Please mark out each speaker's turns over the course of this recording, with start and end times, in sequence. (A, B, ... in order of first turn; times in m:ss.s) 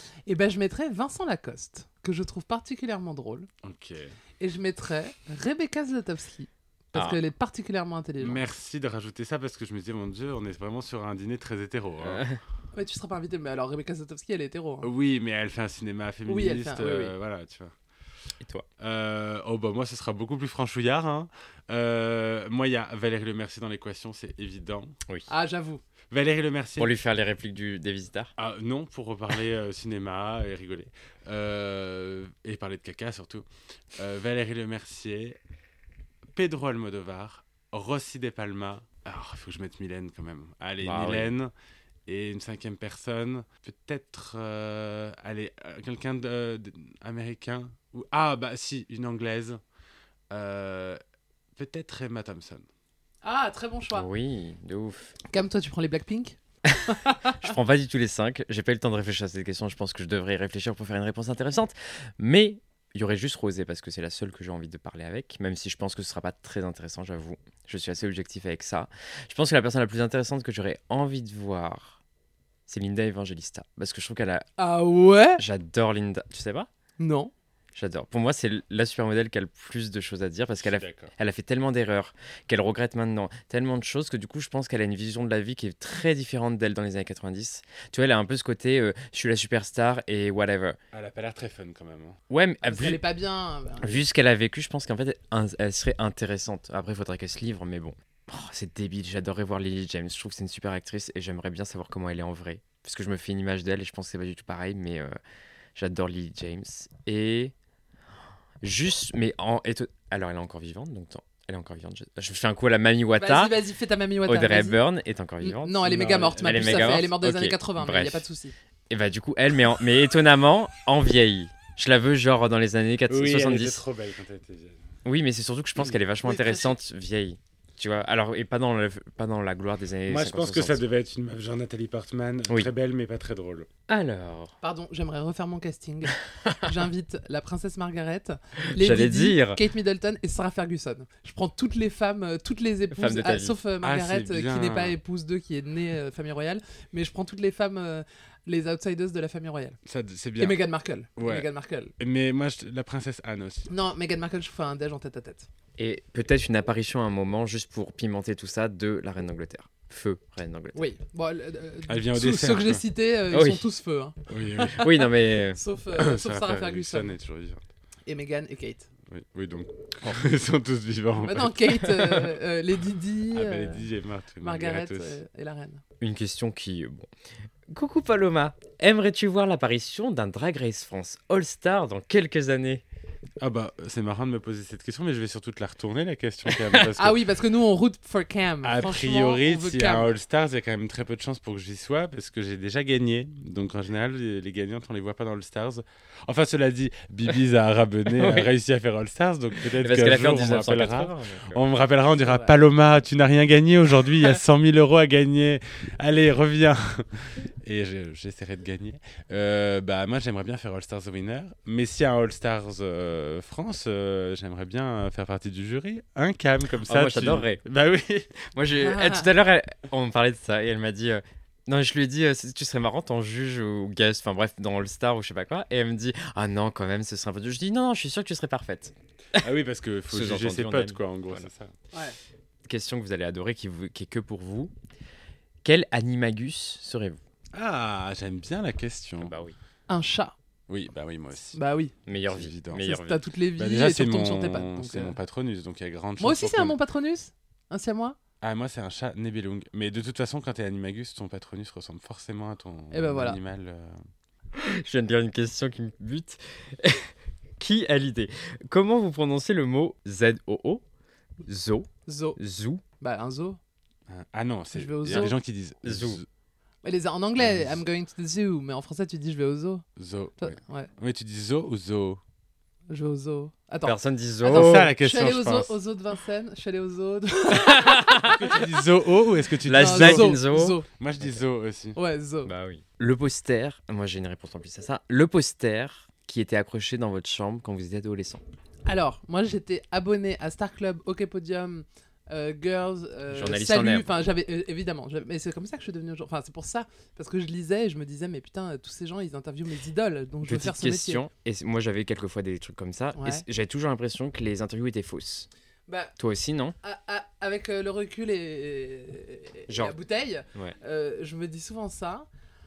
0:00.3-0:03.5 A
0:03.6-0:04.1 B
0:04.4-0:08.4 A
0:06.9-0:07.2 C
0:08.2-0:12.2 B
0:12.0-0:12.4 C
0:12.7-0:14.9 A
0:14.8-0:17.7 B
0:16.3-0:17.1 A
0:18.8-0:24.9 B
0:25.3-0:25.8 A
0:26.1-0:26.9 B
0:26.8-0:28.3 C
0:28.4-0:35.4 B
0:36.3-0:41.5 B
0:40.8-0:41.3 C
0:42.0-0:49.6 B
0:50.3-0:51.0 B
0:51.5-0:52.6 B
0:53.2-0:54.1 A
0:53.9-0:55.1 C
0:55.3-0:57.3 A
0:57.4-1:12.0 C
1:12.7-1:14.5 C
1:14.6-1:15.4 A
1:15.4-1:16.7 C
1:17.0-1:17.3 A
1:17.7-1:30.8 C
1:20.6-1:21.1 B
1:30.9-1:32.2 B
1:32.3-1:33.0 C
1:32.6-1:34.0 A
1:33.8-1:45.2 C
1:45.8-1:47.5 C
1:48.6-1:53.6 C
1:53.2-1:54.8 A
1:54.3-1:55.9 C
1:55.4-1:58.5 A
1:55.8-1:57.0 B
1:56.4-1:58.2 C
1:58.9-2:03.8 C
2:03.1-2:04.8 B
2:05.0-2:10.8 C
2:06.2-2:06.8 A
2:10.1-2:13.7 B
2:13.9-2:14.5 C
2:14.6-2:29.8 A
2:18.8-2:19.6 C
2:22.9-2:23.6 C
2:23.8-2:25.0 B
2:29.8-2:30.6 B
2:30.4-2:31.9 A
2:31.2-2:31.5 B
2:32.0-2:33.7 B
2:33.7-2:35.5 A
2:35.8-2:40.8 C
2:40.7-2:47.1 A
2:41.9-2:42.8 B
2:43.3-2:43.7 C
2:44.3-2:44.9 B
2:44.8-2:45.6 C
2:45.9-2:47.6 B
2:48.0-2:48.9 A
2:49.1-2:51.5 B
2:51.2-2:53.8 A
2:53.3-2:55.2 B
2:54.4-2:55.8 A
2:56.0-2:57.1 C
2:57.7-3:02.8 C
3:03.4-3:07.2 B
3:06.5-3:06.8 C
3:07.0-3:10.1 A
3:08.6-3:38.3 B
3:18.1-3:18.5 C
3:19.6-3:21.6 C
3:22.2-3:22.5 A
3:36.9-3:37.6 C
3:38.5-3:49.4 C
3:38.8-3:39.3 A
3:49.4-3:51.7 B
3:50.1-3:51.5 C
3:52.6-3:54.7 C
3:55.6-3:57.2 C
3:57.5-3:59.3 B
3:59.2-3:59.6 C
3:59.9-4:00.3 A
4:00.7-4:01.6 B
4:01.5-4:01.9 A
4:02.1-4:03.2 C
4:02.1-4:02.8 B
4:02.8-4:05.2 A
4:03.6-4:06.8 B
4:06.2-4:08.2 A
4:08.4-4:14.0 B
4:12.9-4:13.4 A
4:14.5-4:20.8 C
4:21.4-4:22.8 C
4:22.1-4:22.4 A
4:23.0-4:23.6 A
4:24.1-4:26.2 B
4:24.7-4:25.4 A
4:25.8-4:26.2 C
4:26.8-4:29.8 A
4:27.4-4:27.8 B
4:30.0-4:32.2 B
4:30.4-4:30.9 A
4:32.9-4:38.4 A
4:33.8-4:34.9 C
4:34.5-4:35.8 B
4:37.6-4:38.4 C
4:38.3-4:40.3 B
4:39.6-4:41.4 C
4:39.7-4:40.9 A
4:40.9-4:42.0 B
4:42.0-4:42.5 A
4:42.4-4:48.4 C
4:48.8-5:01.2 A
4:53.3-4:54.1 C
5:00.4-5:05.5 C
5:03.2-5:03.4 A
5:05.9-5:06.1 A
5:06.2-5:06.8 C
5:06.8-5:12.2 A
5:09.7-5:10.0 C